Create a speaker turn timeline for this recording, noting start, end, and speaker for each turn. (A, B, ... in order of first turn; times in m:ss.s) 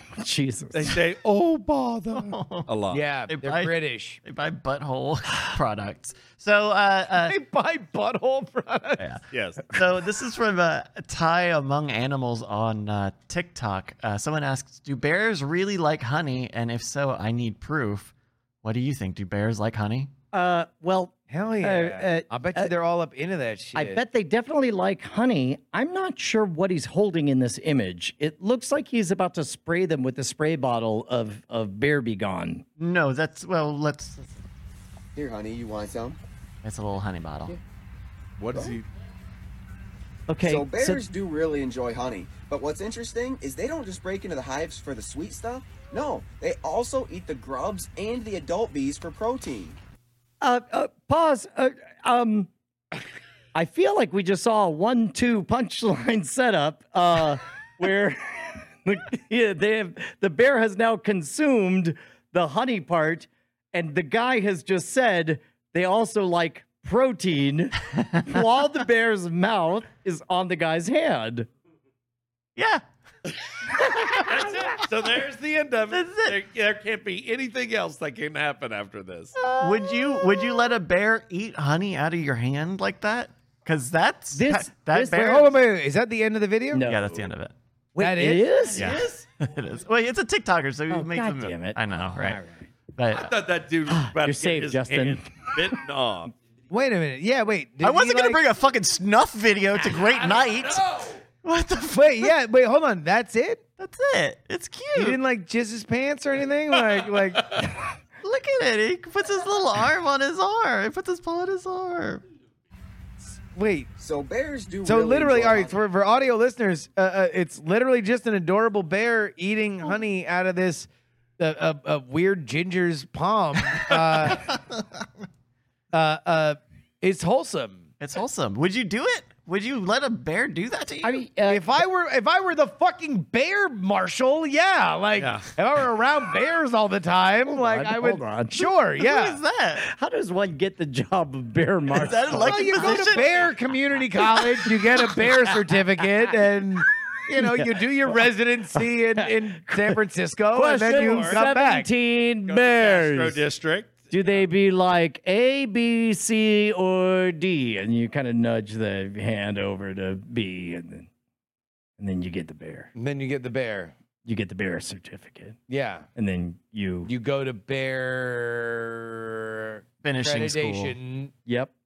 0:00.2-0:01.0 A
0:00.7-0:03.0 B
0:02.1-0:02.7 C
0:02.9-0:04.2 D
0:03.3-0:03.7 C
0:04.2-0:07.4 C
0:07.2-0:09.1 D
0:09.0-0:20.1 C
0:09.3-0:09.6 B
0:20.3-0:22.7 A
0:21.3-0:24.0 D
0:23.7-0:32.6 A
0:32.8-0:34.4 C
0:35.1-0:36.2 E
0:36.6-0:37.6 C
0:38.4-0:38.8 B
0:40.3-0:41.0 A
0:40.4-0:49.8 E
0:50.4-0:52.5 A
0:53.5-1:11.5 A
1:12.6-1:12.8 C
1:14.2-1:19.4 B
1:15.9-1:16.4 C
1:19.4-1:20.4 D
1:19.6-1:25.5 C
1:24.3-1:25.4 A
1:25.1-1:26.8 D
1:26.7-1:27.1 A
1:26.8-1:27.5 C
1:27.9-1:28.9 A
1:28.0-1:28.7 D
1:28.7-1:32.4 C
1:28.8-1:29.0 B
1:30.9-1:32.4 A
1:33.0-1:33.3 C
1:33.1-1:36.3 B
1:33.9-1:35.2 A
1:36.7-1:38.4 D
1:37.8-1:40.8 C
1:41.4-1:42.3 C
1:41.9-1:43.6 D
1:43.8-1:45.2 C
1:44.9-1:47.8 D
1:48.2-1:52.2 C
1:53.5-1:53.9 D
1:54.0-1:55.7 E
1:54.8-2:04.5 D
2:04.3-2:04.6 C
2:05.9-2:07.9 D
2:08.0-2:11.2 C
2:11.0-2:11.6 A
2:11.5-2:19.4 D
2:15.2-2:15.5 B
2:17.5-2:18.7 A
2:19.0-2:19.8 C
2:19.8-2:23.0 A
2:21.9-2:23.5 C
2:22.3-2:31.9 D
2:24.4-2:25.3 A
2:27.4-2:27.7 A
2:29.2-2:29.9 A
2:30.5-2:33.4 A
2:31.0-2:31.4 B
2:32.5-2:34.4 B
2:34.1-2:41.1 A
2:42.0-2:42.9 A
2:42.9-2:43.9 D
2:44.2-2:45.6 A
2:45.7-2:46.1 D
2:46.2-2:47.1 A
2:47.0-2:51.3 D
2:50.0-2:51.0 C
2:51.4-2:51.7 A